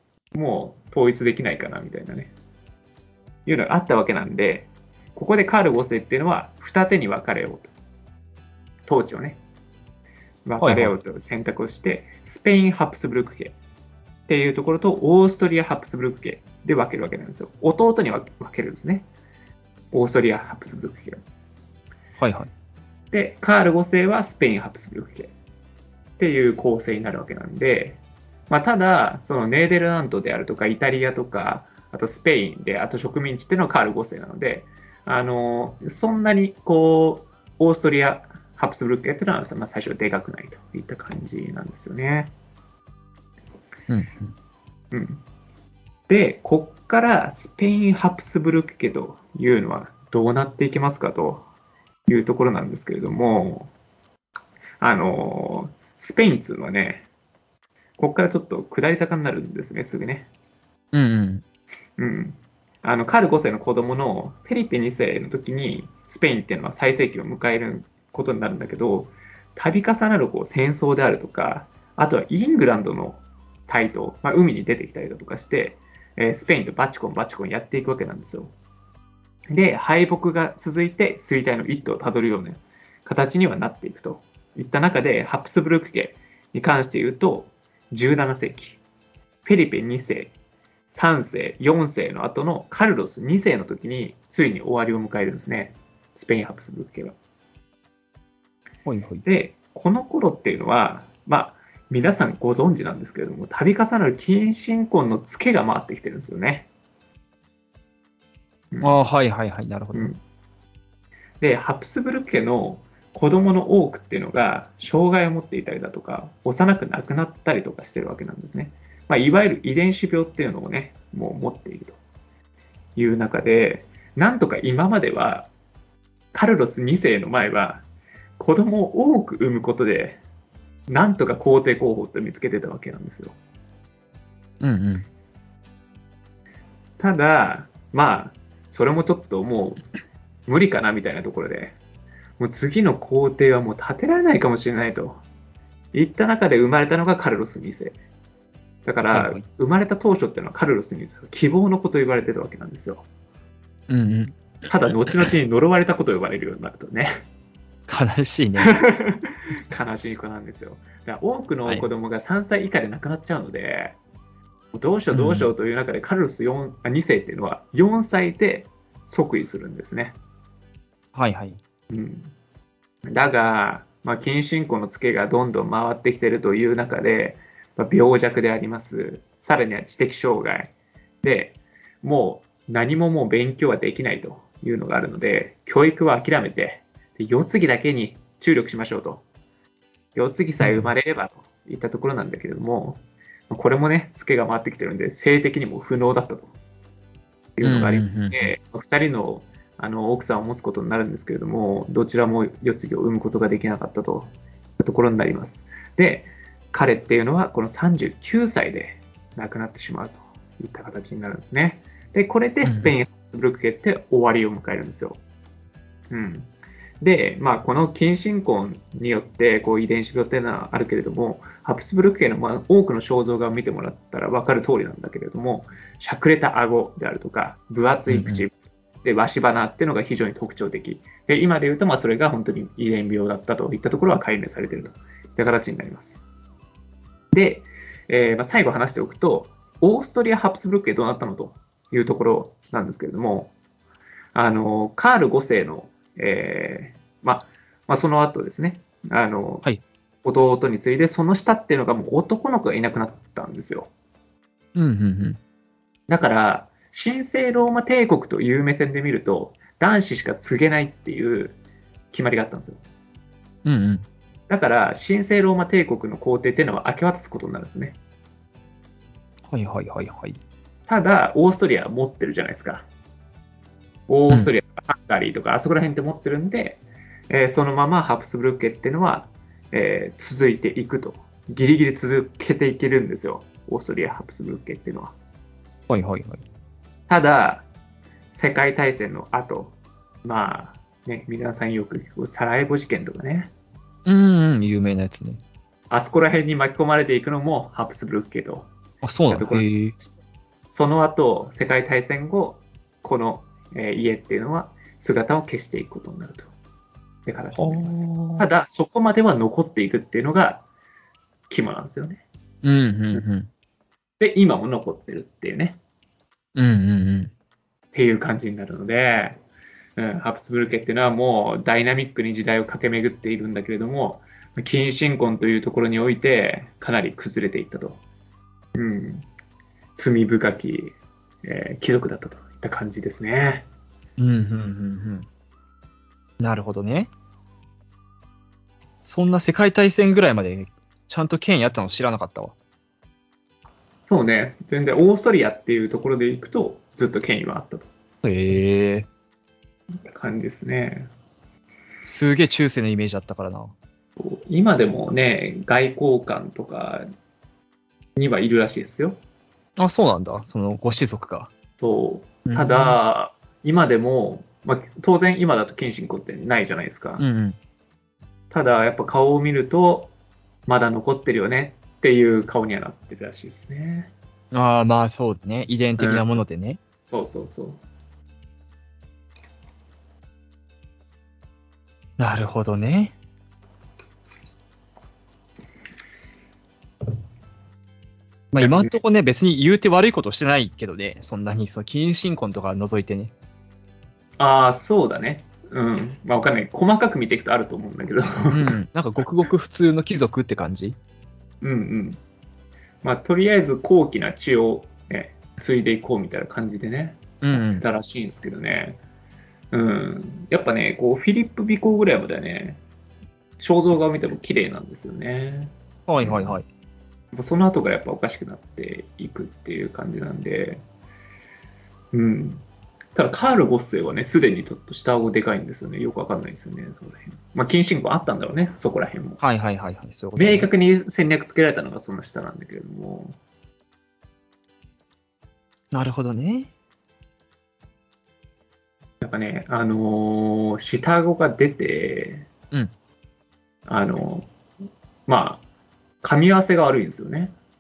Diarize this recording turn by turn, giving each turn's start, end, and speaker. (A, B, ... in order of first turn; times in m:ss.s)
0:00.3-0:02.3 A
0:03.5-0:07.7 A
0:08.9-0:09.4 A
0:10.4-0:13.6 A
0:10.6-0:10.9 B
0:14.3-0:19.1 A
0:19.9-0:21.2 A
0:22.2-0:22.5 B
0:23.1-0:25.3 A
0:26.2-0:28.0 A
0:28.5-0:42.3 A
0:43.9-0:44.3 B
0:44.9-0:45.2 A
0:46.1-0:51.4 A
0:52.1-0:53.7 A
0:54.8-0:57.1 A
0:58.0-1:00.3 A
1:00.9-1:01.4 B
1:02.0-1:18.5 A
1:19.5-1:28.8 A
1:29.4-1:30.3 A
1:30.9-1:37.2 A
1:38.9-1:39.2 B
1:39.2-1:46.7 A
1:48.7-1:49.1 A
1:48.8-1:50.1 B
1:49.9-1:50.2 A
1:51.4-2:02.0 A
2:03.0-2:05.5 A
2:06.3-2:07.8 A
2:08.4-2:10.2 A
2:10.9-2:13.4 A
2:14.6-2:15.1 B
2:17.0-2:19.8 A
2:20.5-2:21.8 A
2:22.4-2:25.2 A
2:25.9-2:28.0 A
2:28.8-2:33.0 A
2:29.1-2:29.4 B
2:33.9-2:34.4 B
2:34.7-2:37.1 A
2:37.9-2:38.8 B
2:38.6-2:44.0 A
2:44.7-2:50.2 A
2:45.1-2:45.5 B
2:51.2-2:51.6 B
2:51.9-2:52.3 A
2:53.0-3:09.2 A
3:10.2-3:16.5 A
3:10.6-3:10.9 B
3:17.6-3:35.2 A
3:17.6-3:18.5 B
3:32.6-3:32.9 B
3:36.1-3:36.5 A
3:37.0-3:56.3 A
3:48.1-3:48.4 B
3:57.3-4:03.5 A
4:04.4-4:09.6 A
4:10.2-4:13.9 A
4:14.8-4:15.4 B
4:16.1-4:21.6 A
4:22.1-4:22.8 A
4:23.6-4:24.0 B
4:24.5-4:28.0 A
4:29.5-4:30.4 B
4:30.9-4:32.8 A
4:34.1-4:45.2 A
4:45.9-4:46.4 B
4:47.1-4:47.7 A
4:48.3-4:53.5 A
4:54.1-4:55.4 B
4:55.9-4:58.7 A
4:59.0-5:00.0 B
4:59.3-4:59.7 A
5:00.7-5:06.5 A
5:07.3-5:10.6 A
5:07.6-5:08.5 B
5:11.5-5:12.2 A
5:12.6-5:13.5 B
5:14.2-5:15.8 A
5:16.6-5:17.3 B
5:17.9-5:19.4 A
5:20.0-5:28.0 A
5:28.8-5:29.3 A
5:30.0-5:33.7 A
5:34.2-5:35.3 B
5:36.4-5:37.1 B
5:39.0-5:42.6 B
5:44.1-5:47.9 A
5:48.2-5:49.1 B
5:50.0-5:51.1 A
5:52.0-5:53.7 B
5:54.2-5:57.1 A
5:58.2-5:59.2 A
5:59.8-6:01.5 B
6:01.8-6:07.2 A
6:02.5-6:03.0 B
6:07.2-6:07.6 B
6:08.5-6:10.1 A
6:10.7-6:14.1 A
6:14.5-6:16.8 B
6:16.0-6:16.4 A
6:17.1-6:17.8 A
6:22.2-6:23.2 B
6:28.5-6:33.3 B
6:28.6-6:29.0 A
6:34.4-6:38.8 A
6:38.5-6:41.0 B
6:41.6-6:42.2 A
6:43.0-6:49.0 A
6:47.4-6:47.8 B
6:49.7-6:52.8 A
6:53.6-6:56.6 A
6:56.1-6:56.7 B
6:57.3-7:00.8 A
7:02.1-7:02.6 A
7:03.2-7:09.4 A
7:09.4-7:10.7 B
7:10.4-7:13.4 A
7:15.9-7:16.7 B
7:19.2-7:22.5 A
7:23.9-7:24.5 A
7:25.3-7:25.6 A
7:26.2-7:27.5 A